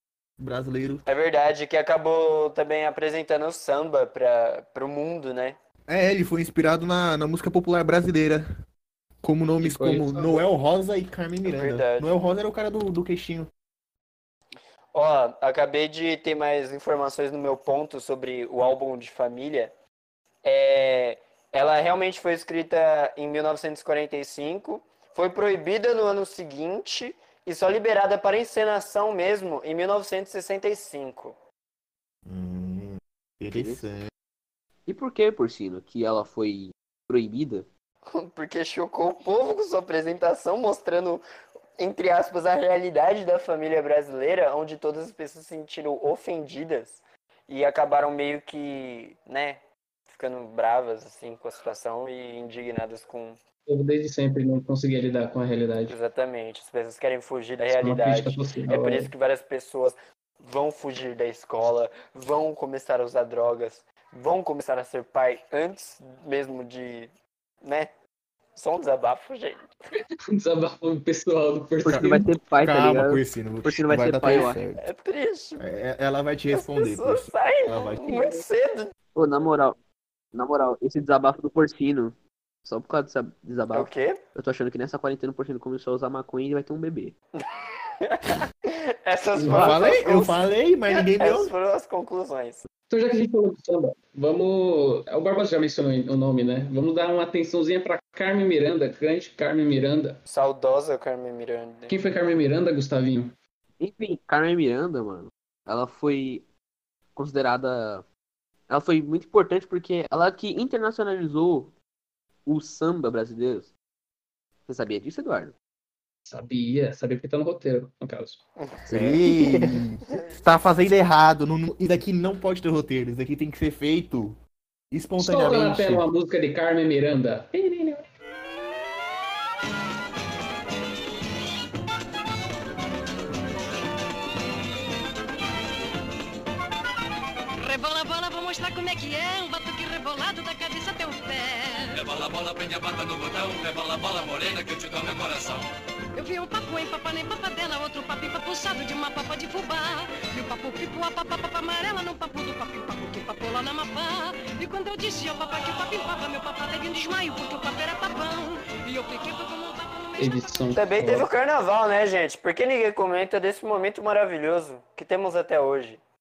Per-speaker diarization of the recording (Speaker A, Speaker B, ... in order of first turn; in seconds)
Speaker A: 0.4-1.0, 5.9-8.4, 9.2-13.5, 32.2-34.1, 71.9-74.8, 75.6-78.2, 89.5-91.5, 118.9-124.4, 124.9-126.0
Speaker B: 1.1-5.6, 11.4-12.1, 14.9-19.7, 20.4-31.4, 38.0-41.2, 41.8-53.4, 55.9-67.1, 67.6-67.9, 68.5-69.7, 74.8-75.6, 76.5-78.9, 83.7-84.2, 87.3-92.6, 100.2-101.9, 118.6-118.8, 120.1-120.4, 160.7-166.0
Speaker C: 9.6-10.4, 53.6-56.0, 57.7-59.1, 70.3-72.2, 89.3-89.8, 92.9-100.2, 101.9-103.3, 116.2-118.4, 125.2-128.1, 160.2-161.3
Speaker D: 33.5-33.9, 34.9-37.7, 71.8-74.6, 79.1-79.8, 80.3-87.1, 103.8-106.4, 107.1-108.0, 108.7-111.7, 112.4-113.7, 114.7-115.5, 118.8-119.8
Speaker E: 137.6-142.2, 146.1-160.6
Speaker F: 142.0-145.6